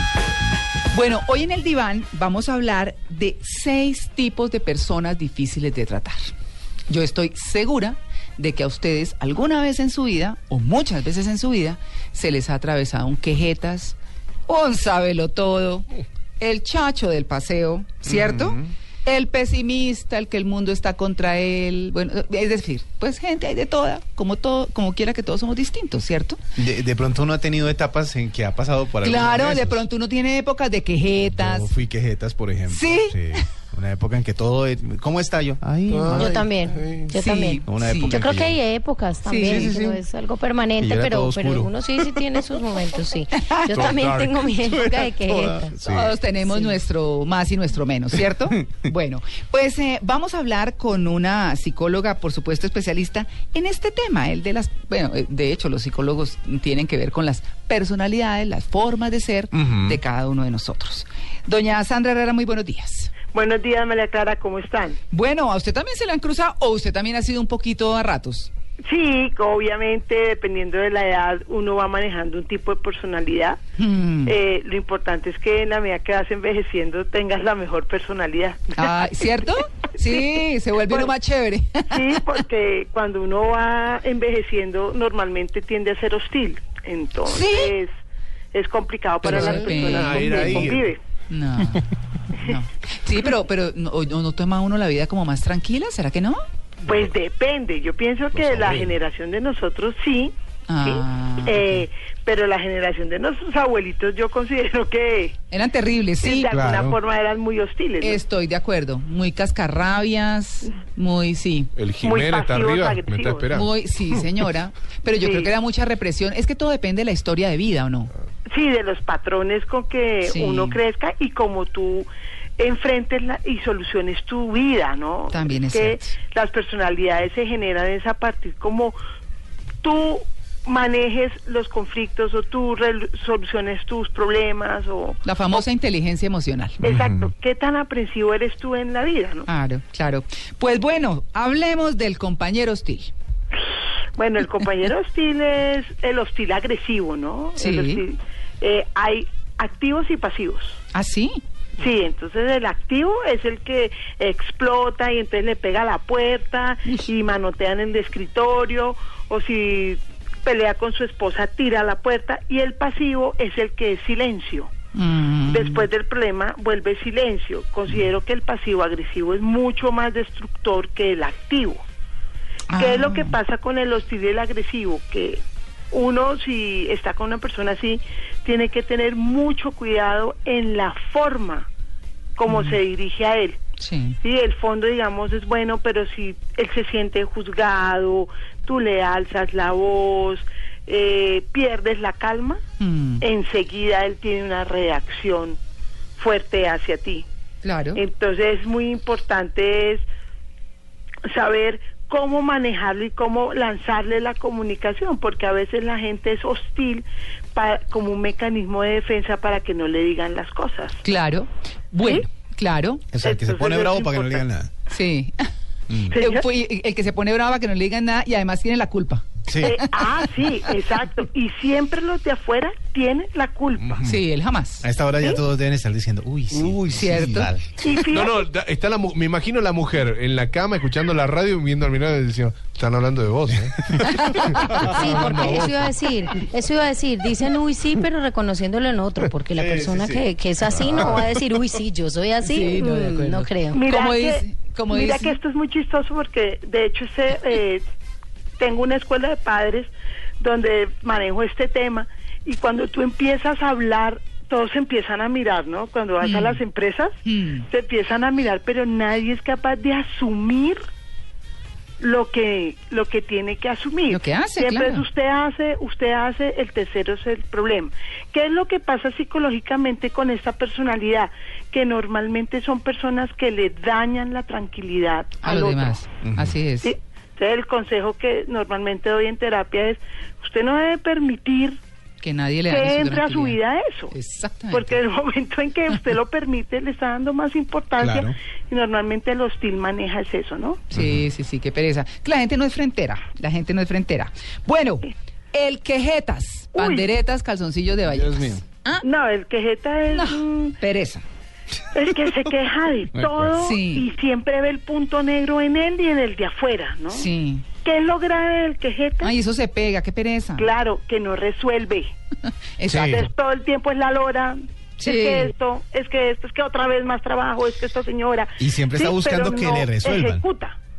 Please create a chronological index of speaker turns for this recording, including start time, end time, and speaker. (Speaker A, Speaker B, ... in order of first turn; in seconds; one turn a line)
Speaker A: 0.9-6.3
Speaker A: 6.9-13.9
Speaker A: 14.5-15.9
Speaker A: 16.4-26.4
Speaker B: 18.0-18.7
Speaker B: 26.6-29.9
Speaker A: 29.0-31.7
Speaker B: 31.3-36.5
Speaker A: 32.7-33.4
Speaker C: 35.9-37.1
Speaker D: 36.1-45.8
Speaker A: 37.2-38.2
Speaker B: 37.7-38.6
Speaker A: 39.2-39.7
Speaker B: 39.4-40.0
Speaker B: 40.8-41.9
Speaker B: 43.7-46.2
Speaker C: 43.8-44.3
Speaker A: 45.9-63.1
Speaker B: 59.5-60.0
Speaker E: 63.3-65.0
Speaker A: 65.1-68.5
Speaker E: 68.8-73.6
Speaker A: 73.8-74.3
Speaker E: 74.2-78.9
Speaker A: 78.8-82.0
Speaker E: 80.1-81.1
Speaker E: 81.9-87.9
Speaker A: 87.3-87.7
Speaker E: 88.5-91.0
Speaker A: 89.2-90.7
Speaker C: 89.3-90.9
Speaker A: 91.3-96.4
Speaker E: 96.8-105.4
Speaker C: 98.3-99.0
Speaker A: 100.7-101.8
Speaker A: 105.5-106.5
Speaker E: 106.2-108.2
Speaker B: 106.5-107.0
Speaker A: 108.0-111.7
Speaker C: 111.8-113.7
Speaker E: 112.0-113.5
Speaker A: 113.5-118.1
Speaker E: 115.2-115.5
Speaker E: 118.5-129.0
Speaker A: 120.2-120.8
Speaker A: 125.3-126.1
Speaker E: 129.8-135.6
Speaker A: 135.2-136.8
Speaker E: 136.8-139.5
Speaker B: 136.8-137.3
Speaker A: 139.5-143.1
Speaker E: 144.2-150.8
Speaker A: 147.6-148.0
Speaker A: 150.9-151.4
Speaker E: 151.8-164.7
Speaker A: 164.9-165.9
Speaker E: 165.5-171.8
Speaker A: 172.7-173.3
Speaker E: 172.7-181.7
Speaker E: 182.3-183.6
Speaker A: 182.5-182.8
Speaker A: 183.8-184.2
Speaker E: 184.2-192.6
Speaker A: 192.8-193.2
Speaker E: 193.2-195.6
Speaker E: 196.2-197.2
Speaker A: 197.6-198.0
Speaker E: 197.9-200.0
Speaker E: 201.2-211.0
Speaker A: 211.0-213.0
Speaker B: 213.1-214.7
Speaker E: 213.2-214.4
Speaker A: 214.9-215.4
Speaker B: 215.9-216.2
Speaker E: 216.1-216.4
Speaker A: 216.1-220.2
Speaker B: 219.5-219.8
Speaker E: 219.6-224.0
Speaker B: 223.8-224.2
Speaker A: 224.0-224.9
Speaker B: 224.8-227.7
Speaker C: 226.5-226.8
Speaker A: 226.9-227.5
Speaker E: 227.8-228.4
Speaker C: 228.1-235.9
Speaker A: 234.0-234.6
Speaker D: 234.8-243.8
Speaker B: 239.5-240.1
Speaker C: 240.8-241.1
Speaker B: 240.9-241.2
Speaker A: 242.4-245.3
Speaker E: 243.7-247.8
Speaker E: 248.6-257.1
Speaker A: 256.2-256.6
Speaker A: 257.2-257.6
Speaker E: 257.7-260.8
Speaker E: 262.0-276.1
Speaker A: 264.1-265.0
Speaker A: 275.4-276.9
Speaker B: 276.2-276.6
Speaker E: 276.8-281.8
Speaker A: 282.2-283.6
Speaker E: 282.6-284.1
Speaker A: 284.1-285.0
Speaker E: 284.7-290.8
Speaker B: 288.0-288.3
Speaker A: 290.9-299.0
Speaker B: 290.9-291.2
Speaker E: 296.7-297.1
Speaker B: 298.1-298.6
Speaker E: 299.0-300.8
Speaker A: 300.1-301.2
Speaker E: 301.9-307.3
Speaker B: 303.1-303.5
Speaker A: 303.6-304.1
Speaker A: 307.1-307.6
Speaker E: 307.8-309.3
Speaker A: 309.2-310.7
Speaker E: 310.6-312.1
Speaker A: 312.8-313.2
Speaker B: 312.9-313.3
Speaker E: 313.0-320.8
Speaker A: 315.0-315.5
Speaker B: 318.6-320.4